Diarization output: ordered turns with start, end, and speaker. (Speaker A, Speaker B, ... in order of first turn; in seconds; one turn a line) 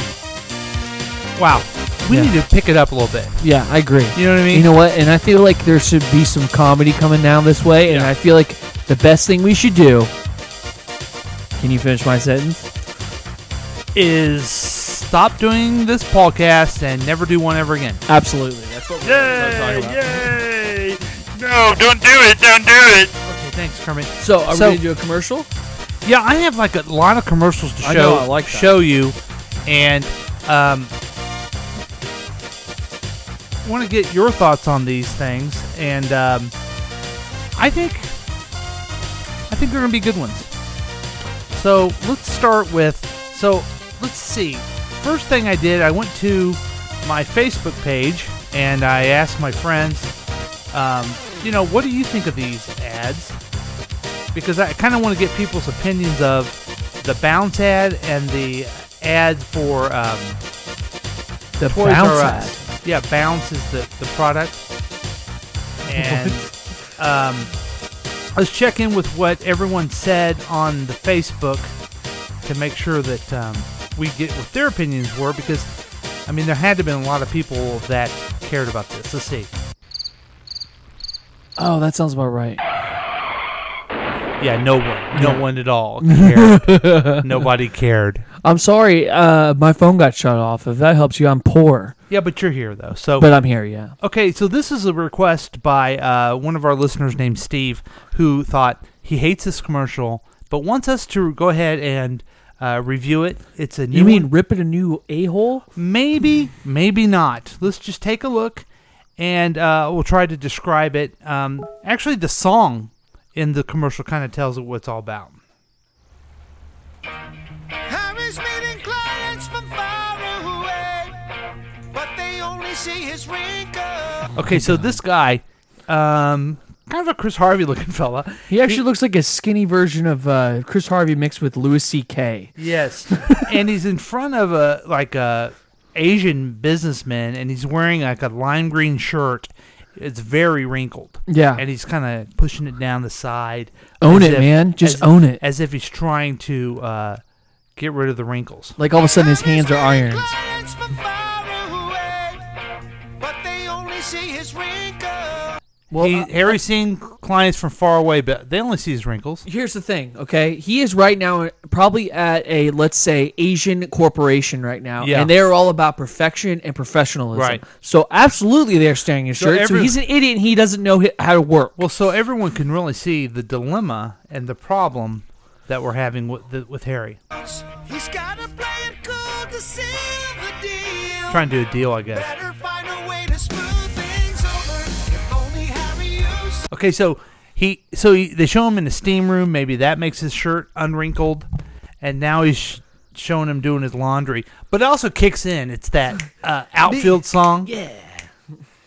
Speaker A: 1.4-3.4
Speaker B: 3.4-10.1
Speaker A: 4.1-4.7
Speaker A: 7.9-8.1
Speaker B: 11.6-12.7
Speaker A: 13.9-18.0
Speaker B: 18.1-20.3
Speaker C: 19.1-23.1
Speaker A: 23.3-24.8
Speaker B: 24.2-25.5
Speaker A: 26.0-30.9
Speaker B: 27.8-28.8
Speaker A: 33.6-36.5
Speaker A: 37.5-38.1
Speaker A: 39.5-40.5
Speaker A: 41.5-50.1
Speaker A: 50.7-53.4
Speaker A: 54.3-60.4
Speaker B: 61.6-62.6
Speaker A: 61.7-64.7
Speaker A: 65.9-67.5
Speaker B: 65.9-66.5
Speaker A: 68.3-71.7
Speaker A: 72.4-75.7
Speaker A: 76.3-79.5
Speaker B: 81.6-82.6
Speaker A: 84.4-88.2
Speaker B: 85.1-85.4
Speaker B: 86.0-87.4
Speaker B: 88.4-92.0
Speaker A: 92.1-93.3
Speaker B: 93.2-94.0
Speaker A: 94.0-104.3
Speaker B: 103.9-105.7
Speaker A: 105.8-108.7
Speaker A: 109.2-115.4
Speaker D: 117.9-121.2
Speaker D: 121.9-124.3
Speaker B: 124.3-125.0
Speaker A: 124.4-128.8
Speaker B: 128.5-132.6
Speaker A: 132.6-147.2
Speaker B: 141.3-141.6
Speaker B: 144.0-145.4
Speaker A: 147.8-148.8
Speaker B: 148.8-150.4
Speaker D: 149.2-152.4
Speaker D: 153.2-155.6
Speaker B: 155.9-156.6
Speaker A: 156.0-159.4
Speaker B: 159.5-171.8
Speaker A: 165.0-165.3
Speaker A: 167.3-167.6
Speaker A: 169.4-170.0
Speaker A: 171.8-177.2
Speaker D: 177.3-181.5
Speaker A: 181.3-182.3
Speaker D: 182.1-186.7
Speaker A: 186.7-191.5
Speaker A: 192.0-197.7
Speaker B: 196.9-198.3